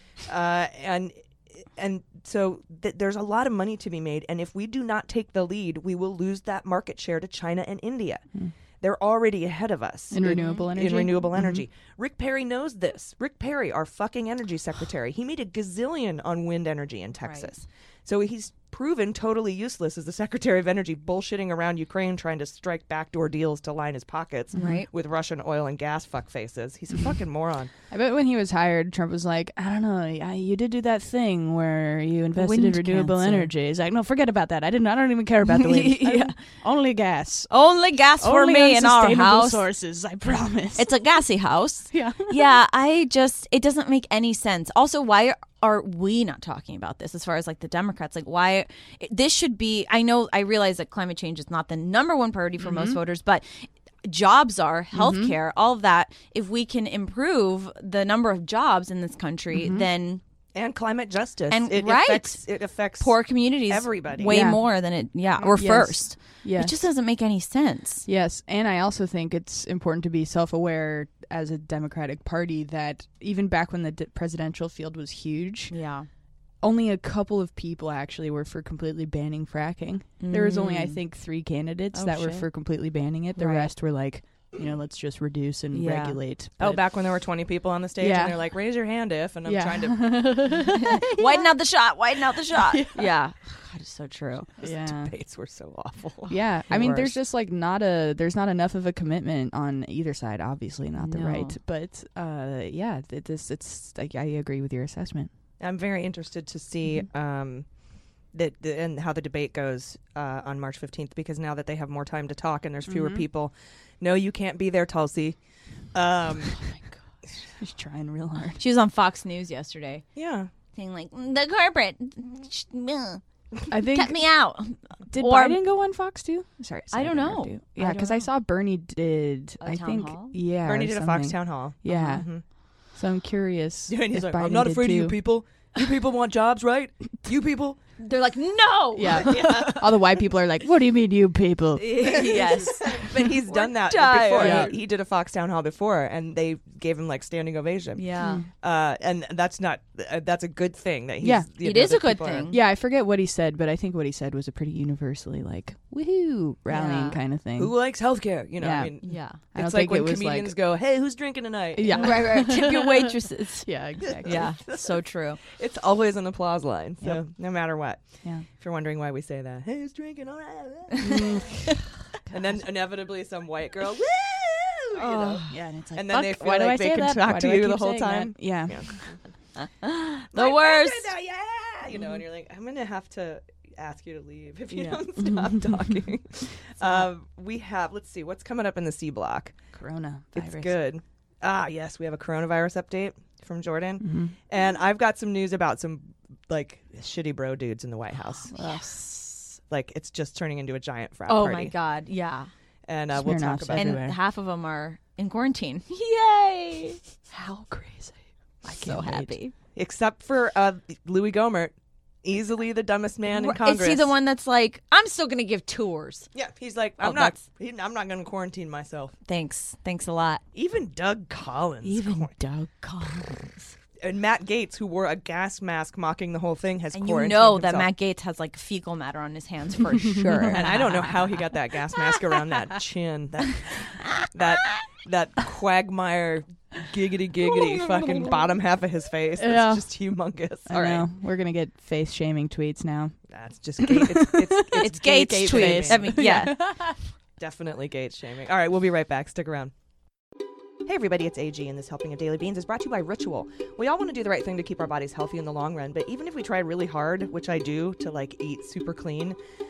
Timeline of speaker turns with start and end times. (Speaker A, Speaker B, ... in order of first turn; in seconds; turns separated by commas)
Speaker A: 0.2-8.2, Speaker A: 8.8-27.7, Speaker B: 10.1-11.6, Speaker C: 10.2-10.7, Speaker C: 17.2-17.5, Speaker B: 24.5-24.8, Speaker C: 24.6-24.9, Speaker B: 27.9-37.5, Speaker C: 32.4-33.5, Speaker C: 35.5-36.4, Speaker C: 37.5-39.6, Speaker B: 38.2-40.9, Speaker C: 40.7-60.2, Speaker B: 41.9-42.4, Speaker B: 52.6-53.0, Speaker B: 54.9-55.4, Speaker B: 59.5-59.9, Speaker A: 60.5-64.3, Speaker C: 61.5-62.5, Speaker C: 63.0-68.0, Speaker B: 64.2-64.6, Speaker B: 65.6-66.8, Speaker B: 68.0-75.7, Speaker C: 75.7-76.1, Speaker B: 76.6-86.8, Speaker C: 80.2-81.0, Speaker C: 81.9-82.5, Speaker C: 83.4-83.7, Speaker C: 85.7-86.2, Speaker A: 86.6-90.2, Speaker B: 88.0-88.4, Speaker B: 89.5-91.5, Speaker C: 90.6-94.5, Speaker B: 92.3-93.1, Speaker B: 94.6-95.1, Speaker A: 94.6-97.2, Speaker B: 96.3-105.3, Speaker C: 101.0-101.5, Speaker A: 105.6-107.7, Speaker A: 108.3-115.4, Speaker B: 112.9-113.2, Speaker A: 115.9-116.5, Speaker B: 117.6-118.6, Speaker C: 118.6-120.0, Speaker A: 120.1-120.5, Speaker C: 120.7-125.6, Speaker B: 123.7-124.2, Speaker B: 125.1-132.3, Speaker C: 126.9-128.3, Speaker C: 129.6-130.3, Speaker A: 130.7-132.4, Speaker C: 131.9-132.2, Speaker B: 132.9-135.2, Speaker A: 133.9-137.8, Speaker C: 138.0-139.7, Speaker B: 138.9-142.5, Speaker A: 139.1-139.9, Speaker C: 141.8-144.8, Speaker A: 142.0-148.0, Speaker B: 144.3-144.8, Speaker C: 147.9-148.4, Speaker B: 148.2-148.5, Speaker A: 148.6-152.5, Speaker B: 151.2-157.8, Speaker C: 151.6-152.6, Speaker C: 156.7-157.2, Speaker A: 157.6-162.4, Speaker B: 158.6-160.5, Speaker C: 159.0-159.4, Speaker B: 161.7-164.5, Speaker C: 161.9-165.4, Speaker A: 164.1-171.5, Speaker B: 171.0-171.8, Speaker A: 172.3-179.2, Speaker C: 175.0-175.6, Speaker B: 175.5-178.9, Speaker C: 179.6-181.1, Speaker A: 180.3-189.5, Speaker C: 184.7-185.0, Speaker B: 185.2-185.9, Speaker B: 189.7-190.7, Speaker A: 190.3-198.5, Speaker B: 194.0-194.3, Speaker B: 198.5-199.4, Speaker A: 199.7-201.7, Speaker C: 201.3-202.5, Speaker A: 202.9-204.0, Speaker B: 203.1-204.2, Speaker C: 203.7-207.0, Speaker B: 207.3-209.3, Speaker C: 208.6-209.5, Speaker A: 209.7-214.1, Speaker C: 213.3-216.3, Speaker A: 216.3-219.1, Speaker C: 217.0-217.4, Speaker C: 219.3-220.4, Speaker A: 220.5-222.3, Speaker C: 221.8-223.7, Speaker A: 224.0-227.9, Speaker C: 226.9-231.4, Speaker B: 230.0-230.8, Speaker A: 230.5-241.1, Speaker C: 233.9-234.8, Speaker C: 237.4-238.5, Speaker B: 239.4-239.9, Speaker B: 240.7-243.2, Speaker A: 243.3-246.2, Speaker B: 243.8-247.0, Speaker C: 244.7-246.6, Speaker A: 247.4-249.7, Speaker A: 250.8-259.4